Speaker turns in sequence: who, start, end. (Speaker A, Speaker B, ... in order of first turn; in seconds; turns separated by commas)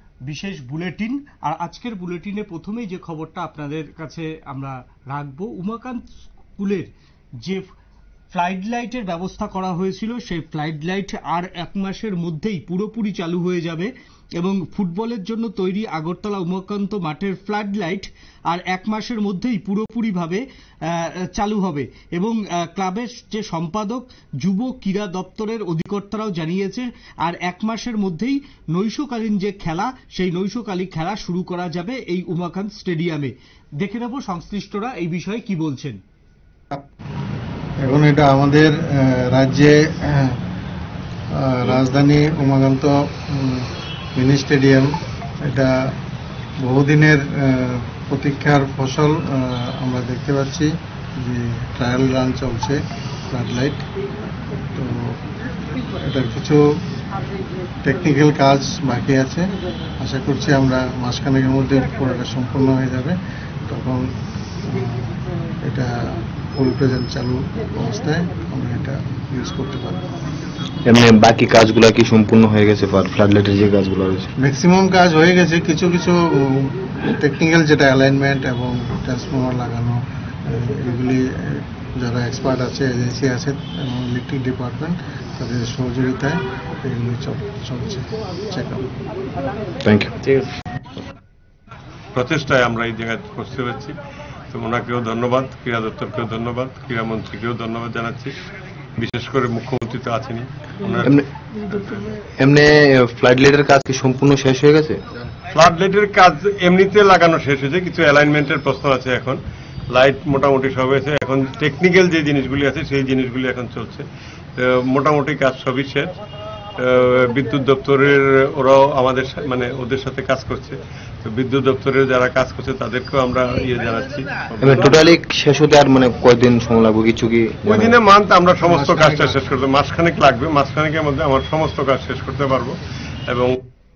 Speaker A: 0.3-6.0, Speaker A: 6.6-6.9, Speaker A: 7.4-7.7, Speaker A: 8.3-36.0, Speaker B: 37.8-40.4, Speaker B: 41.4-44.9, Speaker B: 45.5-45.7, Speaker B: 46.6-50.7, Speaker B: 51.2-52.8, Speaker B: 53.3-53.8, Speaker B: 54.8-55.0, Speaker B: 56.1-56.6, Speaker B: 57.8-59.5, Speaker B: 60.0-64.0, Speaker B: 64.7-65.2, Speaker B: 66.5-70.0, Speaker C: 70.9-74.3, Speaker B: 74.4-80.0, Speaker B: 80.5-88.8, Speaker C: 89.8-90.5, Speaker D: 92.2-94.0, Speaker D: 94.5-98.3, Speaker D: 99.0-101.2, Speaker C: 101.0-105.0, Speaker D: 105.5-109.4, Speaker D: 109.9-116.1, Speaker D: 116.8-125.1, Speaker C: 124.6-128.0, Speaker D: 127.7-133.6, Speaker B: 128.6-129.6